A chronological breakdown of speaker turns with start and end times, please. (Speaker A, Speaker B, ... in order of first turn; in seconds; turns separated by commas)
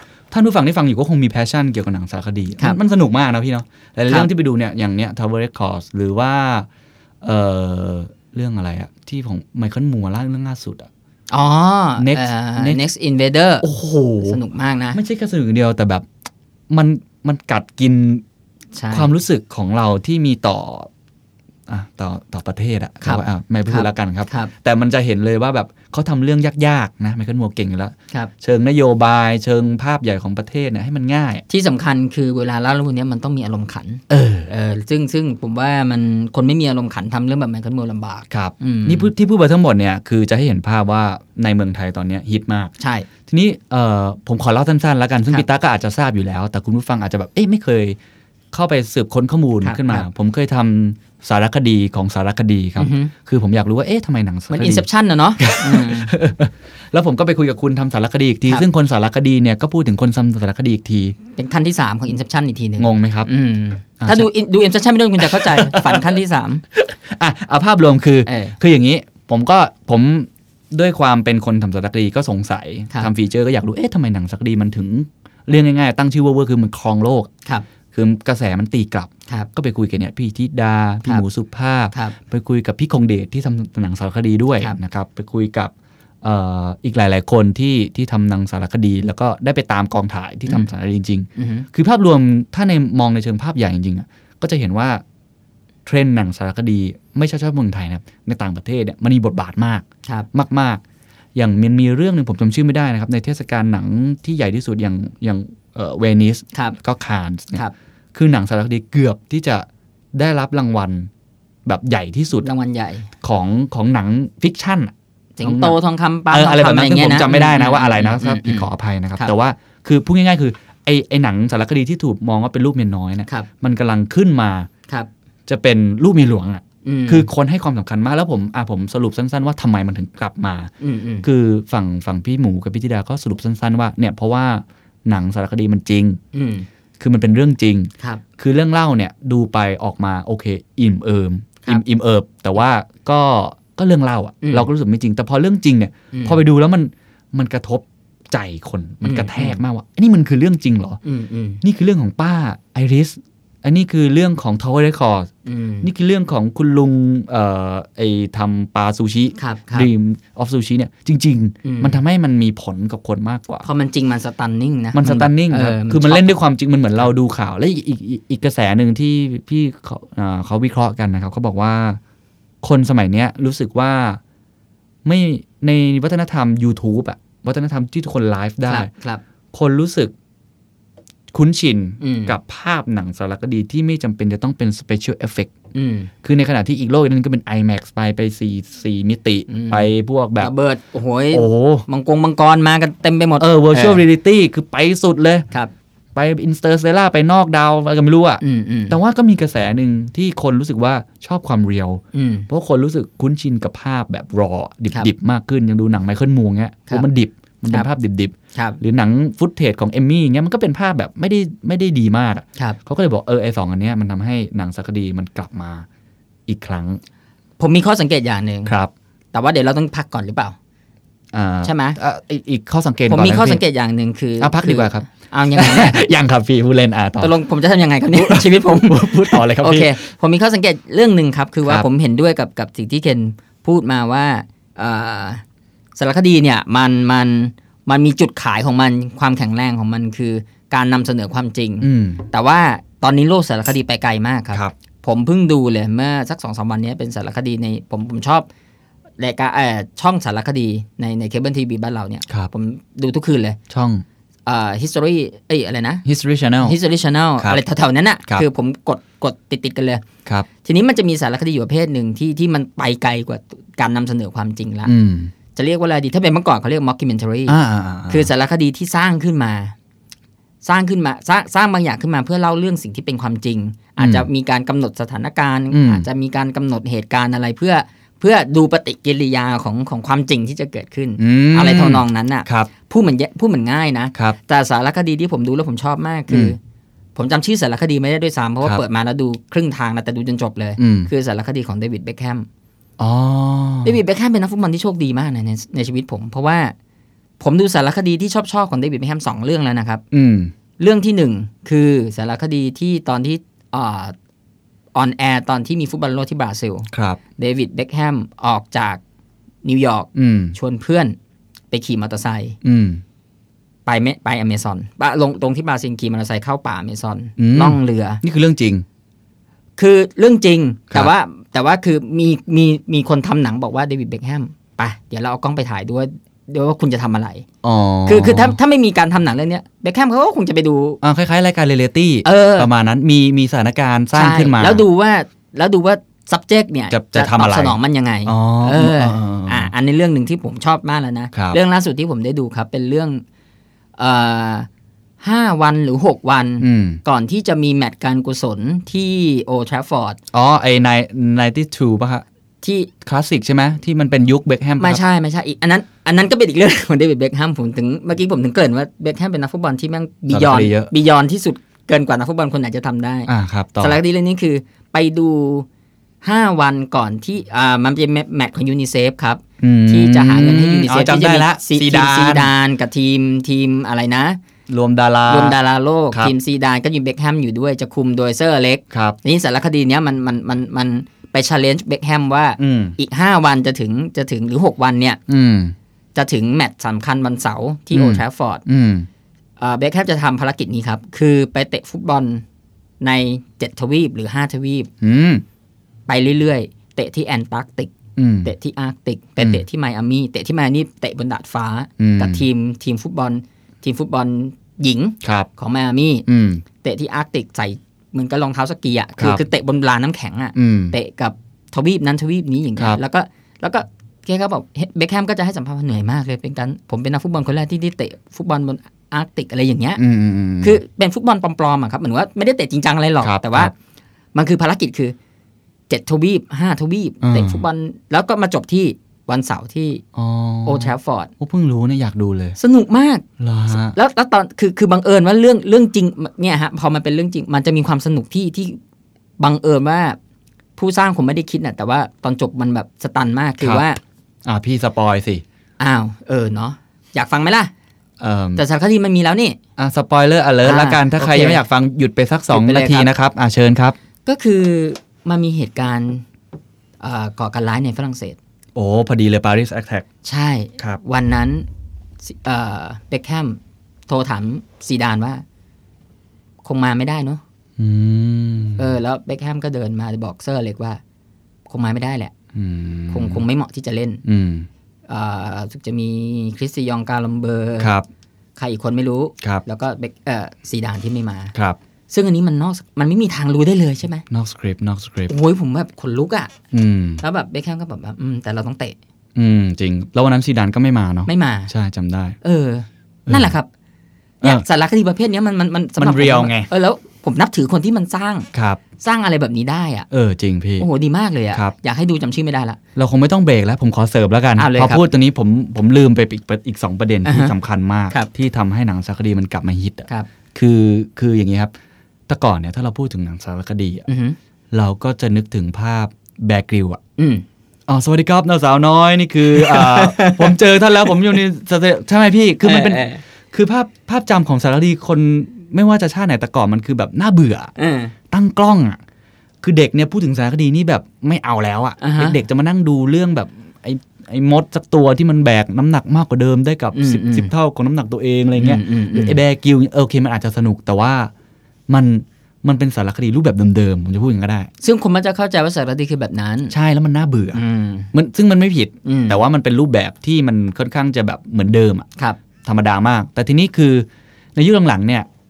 Speaker A: 0.3-6.7, Speaker A: 7.2-10.9, Speaker B: 11.3-13.7, Speaker A: 12.0-12.8, Speaker A: 13.6-14.4, Speaker B: 14.2-15.0, Speaker A: 14.9-16.1, Speaker A: 16.7-18.2, Speaker B: 18.8-19.1, Speaker A: 18.9-20.9, Speaker A: 21.7-31.4, Speaker B: 23.0-24.5, Speaker B: 31.5-39.1, Speaker A: 34.1-34.5, Speaker A: 38.3-42.7, Speaker B: 42.8-43.1, Speaker A: 43.3-48.0, Speaker A: 48.5-54.9, Speaker B: 49.6-50.1, Speaker B: 52.8-53.1, Speaker B: 54.5-56.1, Speaker A: 55.4-61.2, Speaker B: 61.3-66.6, Speaker A: 62.8-63.3, Speaker A: 64.0-64.3, Speaker A: 65.2-66.2, Speaker A: 66.7-77.3, Speaker B: 68.2-68.6, Speaker A: 77.9-95.0, Speaker B: 91.4-91.7, Speaker A: 95.9-100.8, Speaker A: 101.3-107.6, Speaker A: 108.1-111.1, Speaker A: 111.6-112.5, Speaker B: 112.4-113.1, Speaker A: 113.2-115.8, Speaker B: 115.4-119.3, Speaker A: 116.3-124.7, Speaker A: 125.5-130.7, Speaker B: 126.8-127.3, Speaker B: 130.8-131.2, Speaker A: 131.2-136.2, Speaker B: 136.3-136.7, Speaker A: 137.0-151.0, Speaker B: 144.4-144.7, Speaker B: 146.1-146.4, Speaker B: 149.0-149.6, Speaker B: 151.0-151.6, Speaker A: 151.6-155.3, Speaker B: 155.4-155.9, Speaker A: 155.8-163.7, Speaker B: 159.4-159.9, Speaker B: 161.6-162.0, Speaker B: 163.6-166.4, Speaker A: 164.9-172.0, Speaker A: 172.6-174.2, Speaker A: 175.0-178.9, Speaker B: 178.7-179.2, Speaker A: 179.5-180.1, Speaker A: 181.3-185.5, Speaker B: 182.0-182.3, Speaker B: 185.7-186.1, Speaker A: 186.2-190.5, Speaker B: 189.5-189.9, Speaker B: 190.4-194.0, Speaker A: 191.3-191.9, Speaker A: 193.4-195.4, Speaker A: 196.1-215.9, Speaker B: 198.4-199.0, Speaker B: 202.1-202.5, Speaker A: 216.5-217.0, Speaker B: 217.6-218.7, Speaker A: 218.6-218.9, Speaker B: 219.3-220.6, Speaker A: 221.3-223.6, Speaker B: 221.6-222.0, Speaker B: 223.1-226.0, Speaker A: 224.4-227.3, Speaker B: 227.2-235.4, Speaker A: 228.1-230.0, Speaker B: 235.9-248.5, Speaker A: 241.8-242.2, Speaker B: 249.2-253.6, Speaker A: 253.7-254.0, Speaker B: 254.4-256.0, Speaker A: 256.0-256.8, Speaker B: 256.6-260.0, Speaker B: 260.6-264.9, Speaker A: 264.9-265.3, Speaker B: 265.5-267.6, Speaker A: 267.5-268.3, Speaker B: 268.1-269.8, Speaker B: 270.6-286.6, Speaker A: 274.0-274.3, Speaker A: 275.7-276.1, Speaker A: 281.2-282.7, Speaker A: 286.3-286.6, Speaker B: 287.1-292.5, Speaker A: 290.8-291.1, Speaker A: 293.0-294.0, Speaker B: 293.8-296.7, Speaker B: 297.4-300.0, Speaker A: 300.1-300.5, Speaker B: 300.8-304.1, Speaker B: 304.9-309.0, Speaker A: 306.9-307.2, Speaker B: 309.6-311.1, Speaker A: 310.1-310.6, Speaker B: 311.7-312.6, Speaker A: 312.6-313.0, Speaker B: 313.9-318.2, Speaker A: 317.4-318.9, Speaker B: 319.8-327.5, Speaker A: 327.6-328.6, Speaker B: 328.1-331.0, Speaker A: 331.0-334.9, Speaker B: 332.2-332.7, Speaker B: 334.1-343.2, Speaker A: 336.9-339.7, Speaker A: 341.3-341.6, Speaker B: 344.0-344.7, Speaker B: 345.2-350.2, Speaker A: 346.6-347.0, Speaker A: 350.3-352.2, Speaker B: 352.6-352.9, Speaker A: 353.0-355.0, Speaker B: 354.8-365.7, Speaker A: 360.3-360.9, Speaker A: 363.3-364.0, Speaker B: 366.2-374.4, Speaker A: 369.6-372.5, Speaker A: 374.7-375.6, Speaker B: 375.3-385.2, Speaker A: 378.9-379.2, Speaker A: 382.6-383.0, Speaker A: 385.3-385.7, Speaker B: 386.1-388.6, Speaker A: 387.9-389.1, Speaker B: 389.6-392.4, Speaker B: 393.0-394.9, Speaker A: 395.0-395.4, Speaker B: 396.1-397.9, Speaker A: 398.2-398.5, Speaker B: 398.4-406.2, Speaker A: 399.4-399.6, Speaker A: 402.0-402.4, Speaker A: 405.2-405.5, Speaker A: 406.3-406.6, Speaker B: 406.8-420.0, Speaker A: 410.6-410.9, Speaker A: 420.0-420.8, Speaker B: 420.6-423.7, Speaker A: 423.2-423.7, Speaker B: 424.3-425.1, Speaker B: 425.9-430.0, Speaker A: 427.2-427.6, Speaker A: 430.1-432.6, Speaker B: 430.6-431.3, Speaker B: 432.6-433.2, Speaker A: 433.4-433.9, Speaker B: 433.9-438.8, Speaker B: 439.4-440.2, Speaker B: 440.8-444.0, Speaker A: 443.6-443.9, Speaker A: 444.4-445.4, Speaker B: 445.8-447.7, Speaker A: 448.2-448.6, Speaker B: 448.6-449.6, Speaker A: 449.8-454.0, Speaker B: 450.6-451.6, Speaker B: 452.5-453.1, Speaker B: 454.2-456.2, Speaker B: 457.0-458.4, Speaker A: 458.7-460.1, Speaker B: 460.2-461.7, Speaker B: 462.2-465.4, Speaker B: 466.6-467.4, Speaker A: 467.8-468.9, Speaker B: 468.8-471.0, Speaker B: 471.7-472.3, Speaker A: 472.5-473.4, Speaker B: 473.1-474.2, Speaker A: 474.2-474.7, Speaker B: 475.1-477.9, Speaker A: 477.8-478.1, Speaker B: 478.6-481.5, Speaker B: 482.1-484.2, Speaker A: 484.3-485.3, Speaker B: 485.3-486.5, Speaker A: 486.7-487.2, Speaker B: 487.2-488.9, Speaker A: 489.4-492.4, Speaker B: 491.2-491.7, Speaker B: 492.4-493.7, Speaker B: 494.4-498.5, Speaker A: 496.0-496.7, Speaker A: 498.5-498.8, Speaker B: 499.0-500.1, Speaker A: 500.1-500.9, Speaker B: 500.8-502.8, Speaker A: 502.9-511.7, Speaker B: 504.6-505.0, Speaker B: 507.2-507.5, Speaker A: 512.3-514.1, Speaker B: 514.1-514.4, Speaker A: 514.7-517.0, Speaker B: 517.2-517.4, Speaker A: 517.9-527.7, Speaker B: 519.5-520.6, Speaker B: 522.6-523.2, Speaker B: 527.8-528.1, Speaker A: 528.3-529.0, Speaker A: 529.6-541.3, Speaker B: 532.0-532.4, Speaker B: 536.9-537.5, Speaker B: 538.6-539.4, Speaker A: 541.9-544.7, Speaker B: 544.8-546.7, Speaker A: 546.7-547.6, Speaker B: 547.5-548.1, Speaker A: 548.1-552.1, Speaker B: 549.0-549.4, Speaker A: 552.6-555.3